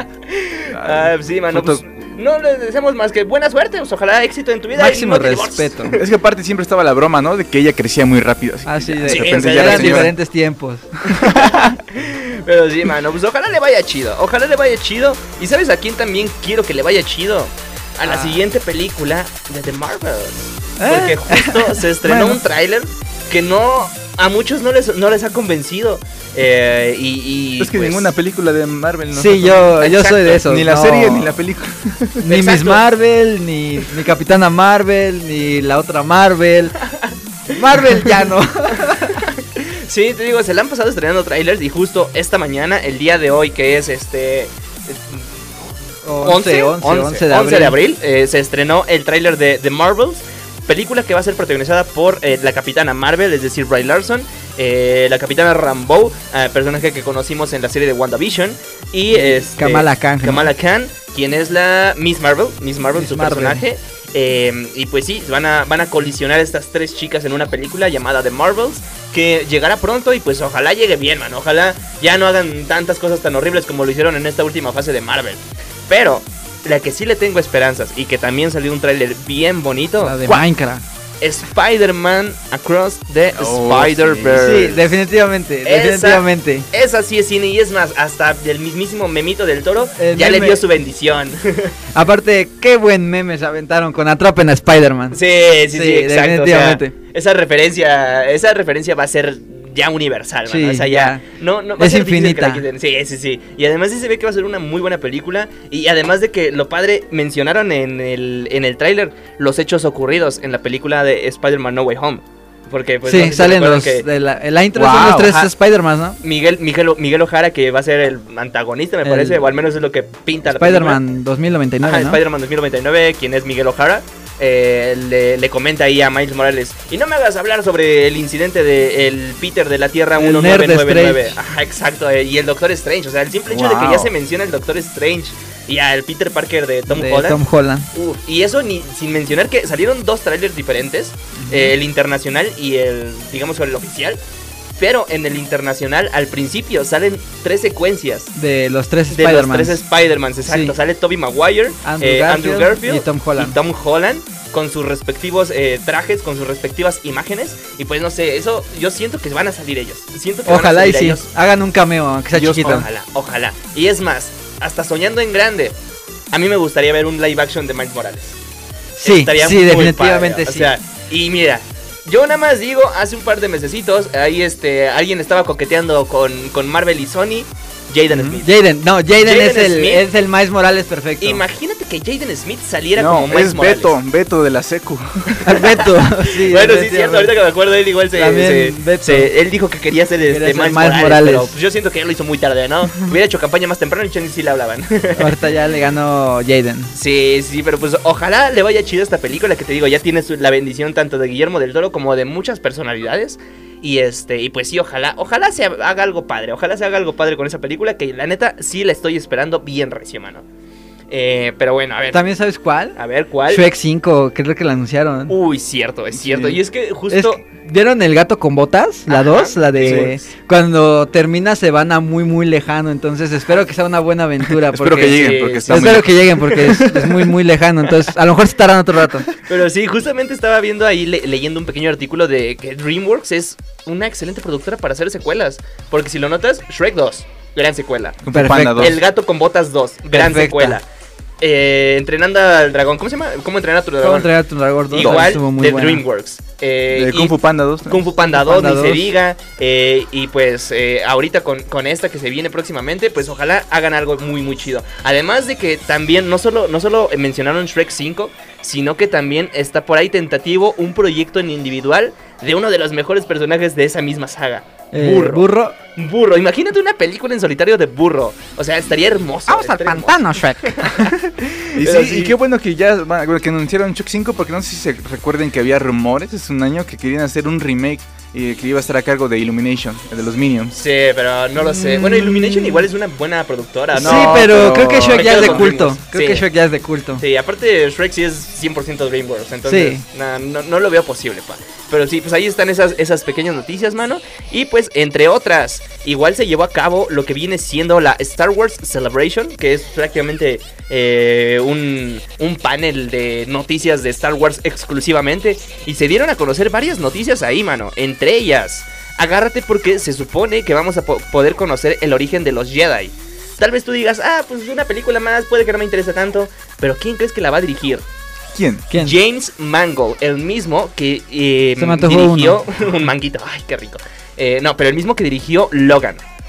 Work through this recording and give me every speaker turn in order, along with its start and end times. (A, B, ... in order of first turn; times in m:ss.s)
0:00.3-0:06.0 A
0:00.7-0:01.8 B
0:04.8-0:05.9 C
0:05.9-0:10.1 B
0:08.6-0:11.1 C
0:09.1-0:10.1 A
0:11.1-0:11.8 B
0:11.9-0:28.1 A
0:18.0-0:18.4 C
0:20.8-0:21.8 C
0:22.0-0:22.4 B
0:27.6-0:29.8 B
0:29.1-0:31.3 C
0:29.8-0:30.4 A
0:30.4-0:32.2 B
0:32.2-0:36.8 C
0:32.2-0:32.8 A
0:37.5-0:39.2 C
0:39.1-1:20.4 A
0:46.0-0:47.8 C
0:59.1-1:00.5 C
1:02.9-1:03.6 C
1:20.0-1:20.8 C
1:21.2-1:24.8 A
1:23.3-1:24.7 B
1:24.4-1:26.6 C
1:25.6-1:31.7 A
1:30.0-1:30.6 C
1:31.9-1:35.2 C
1:35.1-1:54.0 A
1:35.7-1:36.9 C
1:40.5-1:41.2 C
1:41.8-1:42.6 C
1:53.0-1:56.2 C
1:54.8-1:55.3 B
1:55.0-1:55.5 A
1:56.2-2:01.0 A
1:59.0-1:59.4 C
2:00.4-2:02.2 C
2:01.8-2:17.4 A
2:10.2-2:11.3 C
2:13.5-2:14.1 B
2:16.9-2:17.9 C
2:17.9-2:24.2 A
2:21.4-2:21.7 C
2:24.8-2:28.3 A
2:28.3-2:29.8 C
2:29.1-2:41.3 A
2:30.4-2:30.7 C
2:31.8-2:33.6 C
2:40.4-2:42.9 C
2:42.3-2:42.8 B
2:42.4-2:45.7 A
2:46.3-2:48.4 A
2:49.0-2:50.7 C
2:49.0-2:58.5 A
2:58.1-2:58.4 B
2:58.4-3:01.4 C
2:59.2-3:00.0 A
3:01.2-3:04.0 A
3:03.0-3:05.4 B
3:05.4-3:07.3 C
3:05.5-3:15.3 A
3:08.1-3:09.3 C
3:10.3-3:11.5 C
3:15.2-3:16.9 C
3:16.9-3:30.4 A
3:31.1-3:32.3 A
3:32.1-3:33.0 C
3:33.0-3:33.7 A
3:33.5-3:35.3 C
3:35.3-3:37.4 A
3:36.1-3:36.6 B
3:37.1-3:49.3 C
3:39.1-3:40.1 A
3:39.8-3:40.1 B
3:44.6-3:46.7 B
3:45.1-3:46.8 A
3:49.4-3:58.2 A
3:58.2-3:59.0 B
3:58.3-3:58.9 C
3:58.8-4:00.8 A
4:00.1-4:00.8 C
4:01.4-4:04.4 A
4:04.0-4:06.0 C
4:04.9-4:32.4 A
4:05.0-4:05.3 B
4:06.9-4:08.0 B
4:08.2-4:09.1 C
4:24.9-4:25.8 C
4:29.5-4:31.1 C
4:31.8-4:40.8 B
4:40.7-4:46.4 A
4:41.6-4:42.8 B
4:43.9-4:45.8 B
4:44.0-4:47.2 C
4:47.2-5:18.0 A
4:49.6-4:50.0 C
5:18.5-5:18.9 B
5:18.9-5:26.2 A
5:21.8-5:22.6 C